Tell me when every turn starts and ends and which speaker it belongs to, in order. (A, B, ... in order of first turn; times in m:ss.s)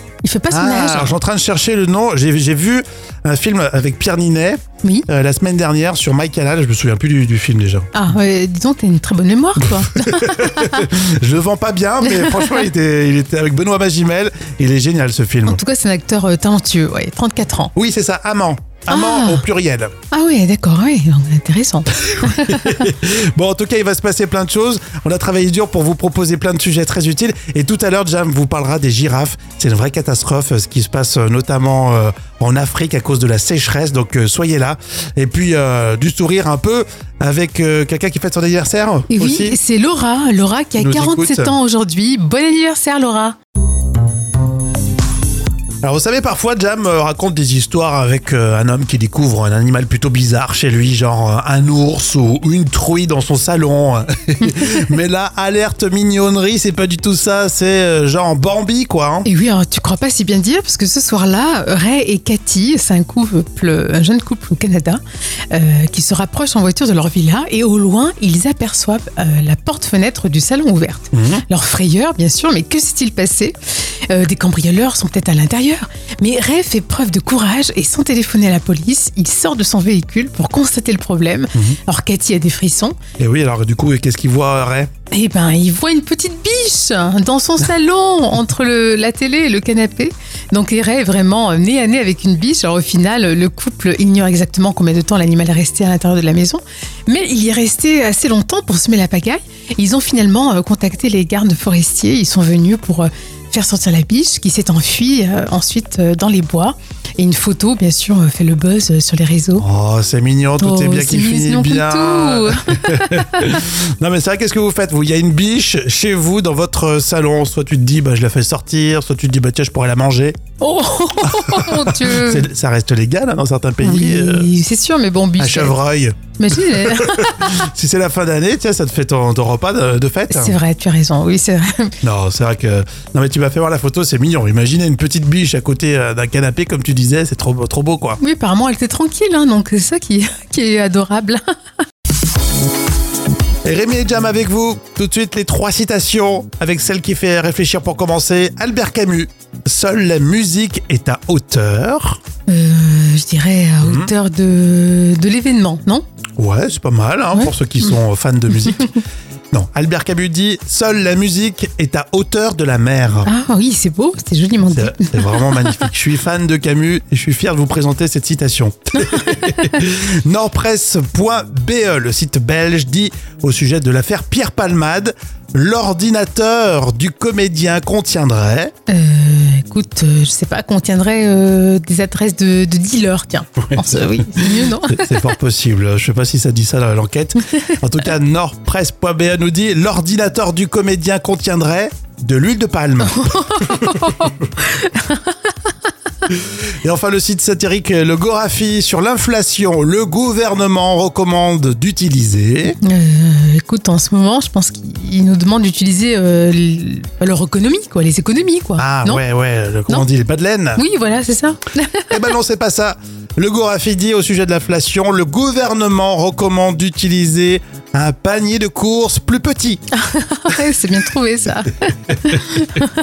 0:00.2-0:01.1 A
0:00.5-0:07.9 B
0:07.9-0:10.9 A
0:10.0-0:15.6 B
0:12.0-0:12.6 A
0:15.4-0:17.7 A
0:17.8-0:19.9 B
0:18.9-0:19.4 A
0:20.1-0:22.8 A
0:22.1-0:39.6 B
0:39.1-0:43.4 A
0:40.8-0:41.5 B
0:45.8-0:59.3 B
0:59.2-1:13.6 A
1:11.1-1:11.4 B
1:14.1-1:22.9 A
1:23.2-1:24.9 B
1:25.1-1:49.6 A
1:49.6-2:00.4 B
1:50.6-1:53.5 A
2:00.6-2:02.5 A
2:01.5-2:04.5 B
2:03.8-2:05.7 A
2:05.4-2:10.6 B
2:06.4-2:07.5 A
2:10.3-2:11.9 A
2:12.0-2:18.2 B
2:18.2-2:21.4 A
2:23.6-2:32.2 B
2:32.5-2:36.0 A
2:33.8-2:34.1 B
2:36.4-2:38.9 B
2:39.5-2:43.3 B
2:43.3-2:45.8 A
2:44.7-2:58.7 B
2:49.0-2:49.7 A
2:58.9-3:05.2 A
3:04.4-3:13.8 B
3:13.1-3:15.5 A
3:16.3-3:22.8 B
3:22.8-3:29.2 A
3:28.8-3:30.8 B
3:30.8-3:32.1 A
3:32.1-3:39.8 B
3:40.0-3:42.9 A